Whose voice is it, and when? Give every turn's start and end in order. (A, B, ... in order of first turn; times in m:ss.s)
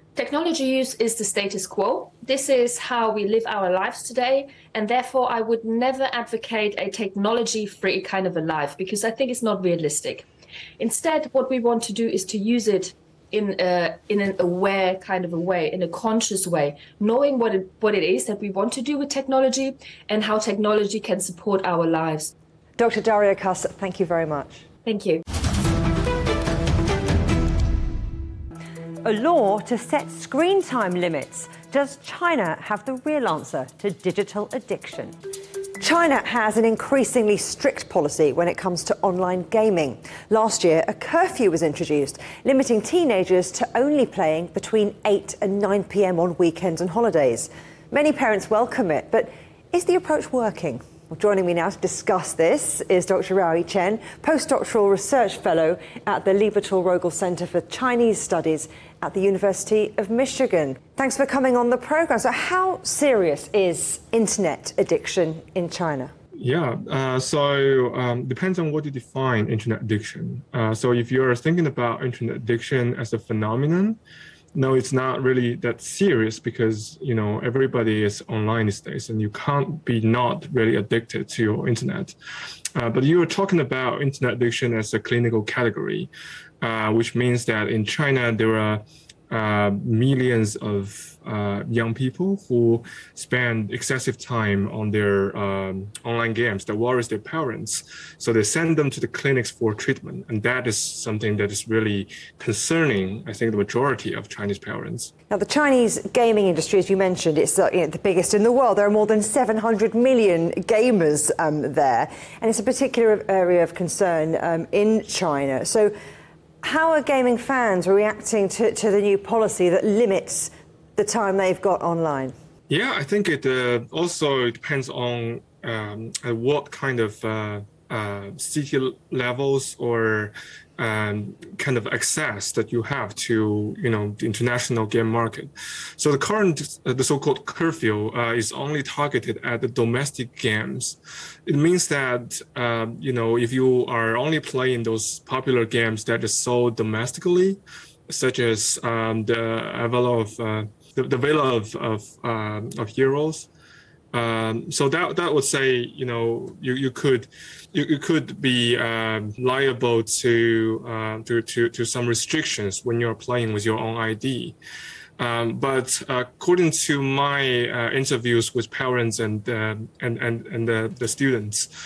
0:00.2-0:10.2 A
0:10.8-0:22.3 A
0:22.8-0:24.6 B
0:24.8-0:25.2 A
0:29.0-0:35.2 B
0:35.8-1:06.1 B
1:06.3-1:14.0 C
1:14.5-1:22.1 C
1:22.8-1:26.1 C
1:26.6-1:45.1 C
1:45.3-1:55.9 B
1:56.6-2:02.3 B
2:02.7-2:33.5 C
2:34.1-2:44.6 C
2:45.2-2:51.7 C